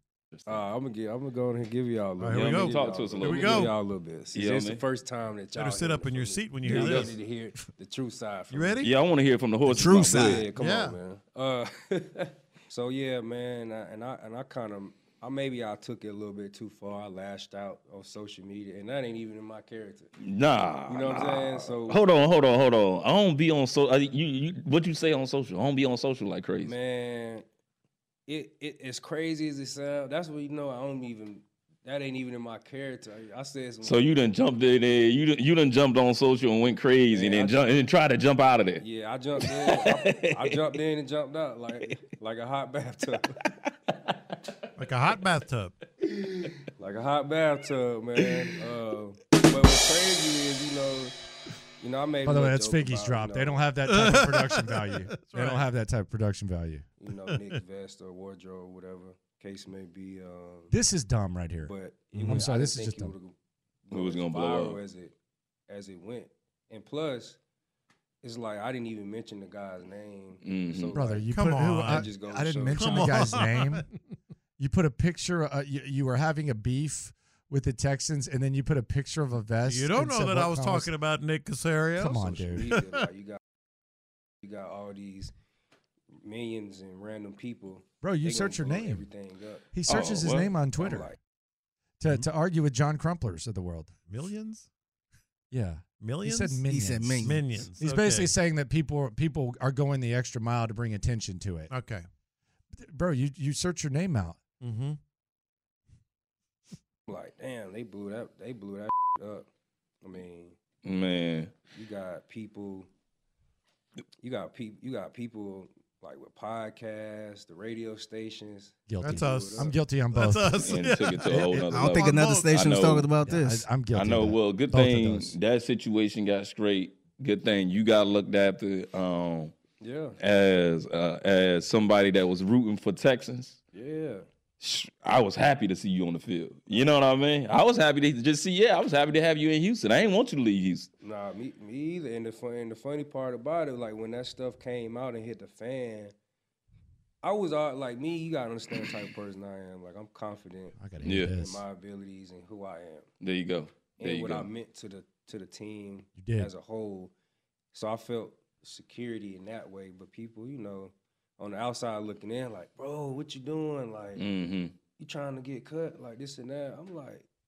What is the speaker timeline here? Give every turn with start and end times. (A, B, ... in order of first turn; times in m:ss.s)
0:00.4-0:00.7 A
0:00.5-0:08.8 B
0:02.2-0:03.7 C
0:02.3-0:03.7 A
0:04.3-0:04.8 A
0:05.6-0:07.2 C
0:06.6-0:07.1 A
0:08.5-0:08.9 C
0:08.8-0:10.4 A
0:09.7-0:10.5 D
0:09.7-0:11.0 C
0:10.1-0:20.1 B
0:20.2-0:26.8 A
0:20.9-0:22.0 B
0:26.6-0:27.4 B
0:28.3-0:34.0 B
0:33.8-0:38.8 A
0:37.1-0:37.7 B
0:38.8-0:43.2 B
0:39.4-0:40.6 A
0:44.8-0:45.7 C
0:46.8-0:51.1 B
0:51.8-0:53.6 B
0:52.2-0:56.9 E
0:53.9-0:55.7 C
0:57.0-1:00.7 B
1:00.7-1:01.7 E
1:01.7-1:03.3 B
1:02.2-1:02.4 C
1:02.2-1:03.2 E
1:03.9-1:05.1 B
1:03.9-1:04.8 A
1:05.7-1:07.4 B
1:08.2-1:11.2 B
1:10.4-1:11.0 A
1:10.9-1:13.9 E
1:11.3-1:12.1 C
1:11.8-1:13.2 B
1:12.7-1:14.0 C
1:14.6-1:20.9 E
1:19.7-1:23.0 C
1:22.0-1:22.7 E
1:22.3-1:23.4 B
1:24.4-1:25.3 B
1:26.2-1:30.0 B
1:28.0-1:29.1 E
1:29.7-1:31.1 E
1:29.9-1:30.5 A
1:30.8-1:31.2 B
1:32.0-1:33.9 E
1:34.1-1:34.7 C
1:35.5-1:41.7 E
1:36.0-1:36.6 C
1:36.7-1:37.5 D
1:37.2-1:38.3 C
1:41.7-1:42.0 C
1:42.8-1:44.4 E
1:44.6-1:45.0 C
1:47.1-1:49.4 B
1:50.0-1:50.6 B
1:50.8-1:51.6 A
1:51.7-1:52.9 B
1:54.2-1:59.7 B
1:58.9-2:00.6 E
1:59.0-2:02.5 C
2:00.6-2:03.1 A
2:01.3-2:01.6 E
2:01.6-2:03.6 D
2:03.2-2:05.3 E
2:03.9-2:09.6 A
2:09.8-2:10.2 B
2:10.2-2:13.6 A
2:13.7-2:14.2 B
2:14.6-2:20.9 A
2:21.0-2:26.1 B
2:27.2-2:30.8 B
2:30.8-2:31.6 E
2:31.0-2:31.4 A
2:31.4-2:33.1 B
2:33.2-2:34.5 A
2:34.0-2:37.1 B
2:36.2-2:36.5 E
2:37.7-2:44.2 B
2:44.2-2:44.8 A
2:44.9-2:47.2 B